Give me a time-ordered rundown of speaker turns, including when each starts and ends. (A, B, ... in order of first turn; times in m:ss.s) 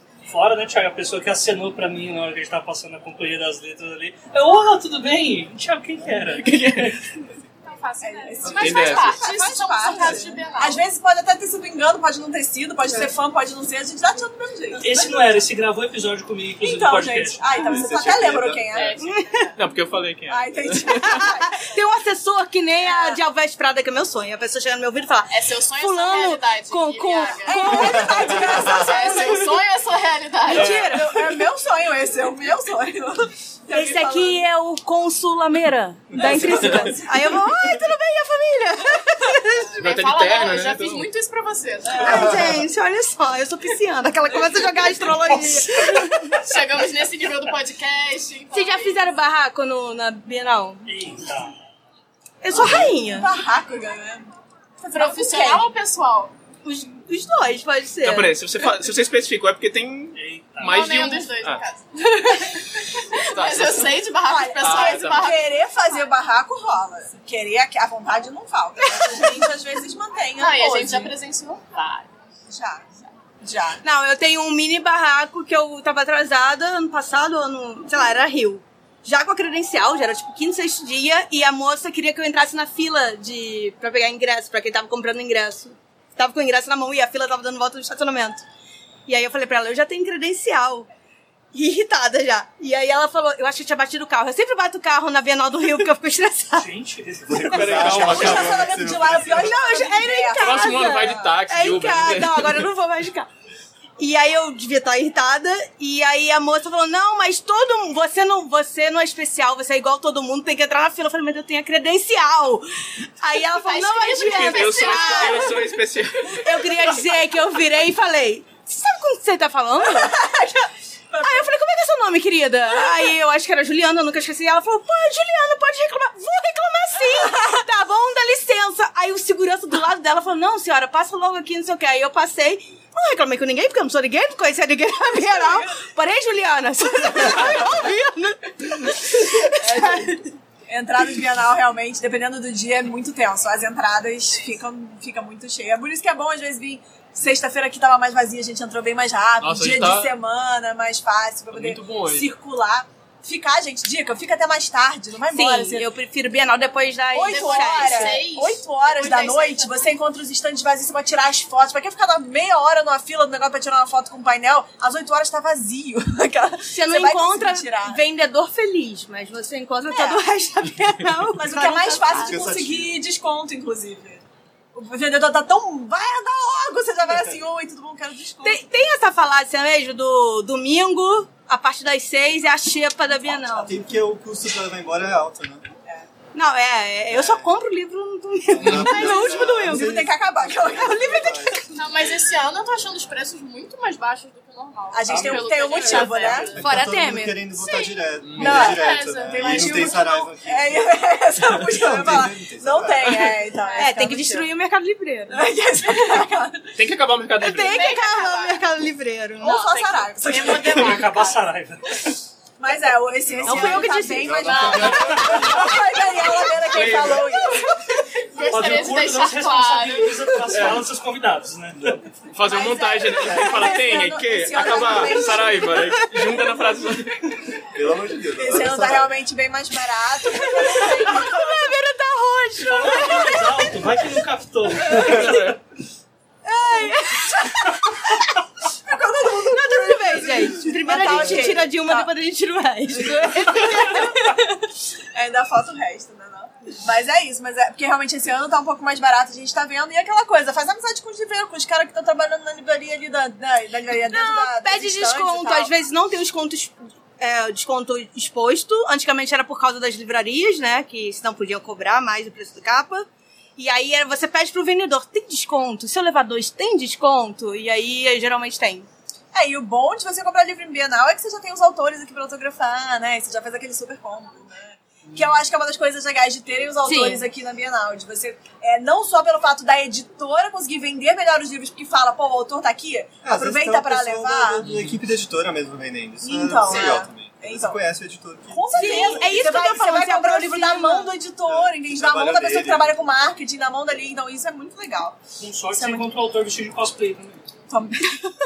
0:00.3-0:07.1 A
0:06.4-0:06.9 B
0:07.6-0:10.8 C
0:08.0-0:15.4 D
0:08.4-0:09.2 B
0:14.8-0:17.5 A
0:16.6-0:19.6 D
0:17.6-0:18.9 E
0:18.7-0:19.0 B
0:19.0-0:19.5 F
0:19.6-0:21.3 B
0:20.3-0:21.7 D
0:21.0-0:28.4 F
0:22.8-0:23.2 D
0:25.3-0:30.9 C
0:27.4-0:29.5 D
0:28.4-0:28.8 E
0:30.5-0:31.1 F
0:30.5-0:34.4 D
0:33.7-0:39.9 F
0:36.1-0:37.4 D
0:39.6-0:42.3 C
0:39.8-0:41.1 B
0:41.9-0:46.4 F
0:41.9-0:42.3 D
0:46.3-0:49.0 C
0:48.5-0:50.8 F
0:50.8-0:51.5 A
0:52.4-0:53.3 F
0:52.5-0:54.3 D
0:54.8-0:55.7 D
0:54.9-0:56.3 C
0:56.6-0:58.3 F
0:58.0-1:01.6 B
1:00.1-1:00.8 A
1:00.6-1:05.6 C
1:03.3-1:03.9 B
1:04.2-1:11.1 D
1:04.6-1:05.3 B
1:10.4-1:12.1 C
1:12.5-1:13.8 D
1:13.8-1:28.4 F
1:29.1-1:30.9 F
1:31.5-1:36.7 F
1:36.6-1:38.2 A
1:37.2-1:39.6 E
1:37.4-1:38.6 B
1:38.0-1:41.3 D
1:39.2-1:43.3 F
1:40.4-1:42.6 B
1:44.0-1:55.6 F
1:53.5-1:55.7 C
1:54.2-1:56.7 B
1:56.3-2:00.2 F
1:59.8-2:01.5 D
2:01.2-2:20.2 F
2:02.8-2:03.1 D
2:07.2-2:07.6 D
2:15.1-2:15.8 D
2:19.5-2:35.9 D
2:29.4-2:30.2 B
2:31.5-2:32.3 B
2:35.3-2:38.2 F
2:37.1-2:48.0 D
2:37.3-2:39.9 C
2:46.7-2:52.4 F
2:49.9-2:50.2 D
2:51.3-2:54.2 D
2:52.0-2:52.9 E
2:54.7-2:58.7 D
2:58.4-3:03.8 F
3:03.4-3:05.7 E
3:06.3-3:10.1 F
3:07.1-3:07.5 E
3:08.5-3:11.6 E
3:08.6-3:08.9 B
3:08.9-3:11.2 D
3:10.6-3:11.8 F
3:11.7-3:16.6 C
3:14.9-3:16.6 D
3:15.1-3:16.1 A
3:16.4-3:23.4 E
3:16.6-3:17.6 F
3:18.2-3:18.7 B
3:18.4-3:24.5 D
3:18.4-3:20.1 C
3:23.8-3:25.4 F
3:25.3-3:26.7 D
3:26.8-3:27.8 B
3:27.4-3:29.6 F
3:27.7-3:28.6 C
3:29.4-3:31.0 D
3:29.4-3:31.5 C
3:30.4-3:32.2 A
3:32.6-3:37.7 D
3:33.2-3:36.1 E
3:33.4-3:34.4 F
3:34.4-3:35.4 B
3:36.6-3:37.4 B
3:37.3-3:37.6 F
3:38.3-3:40.4 C
3:38.5-3:42.0 A
3:40.5-3:40.8 B
3:42.3-3:47.4 B
3:42.4-3:46.0 D
3:43.2-3:43.6 E
3:47.7-3:49.2 E
3:48.4-3:51.5 D
3:50.3-3:54.0 F
3:52.6-3:55.6 A
3:54.9-3:55.2 F
3:54.9-3:55.5 B
3:56.4-3:58.3 F
3:56.8-4:02.1 D
3:59.4-4:04.2 F
4:00.4-4:01.4 E
4:02.9-4:04.6 D
4:05.1-4:15.7 D
4:14.1-4:28.9 F
4:29.3-4:44.6 D
4:36.8-4:37.2 F
4:43.2-4:49.4 E
4:44.6-4:44.9 B
4:46.2-4:47.8 D
4:46.6-4:47.0 C
4:48.5-4:55.2 D
4:48.7-4:51.1 F
4:51.4-4:53.1 E
4:55.4-4:57.5 A
4:55.7-4:56.0 D
4:57.7-4:58.2 D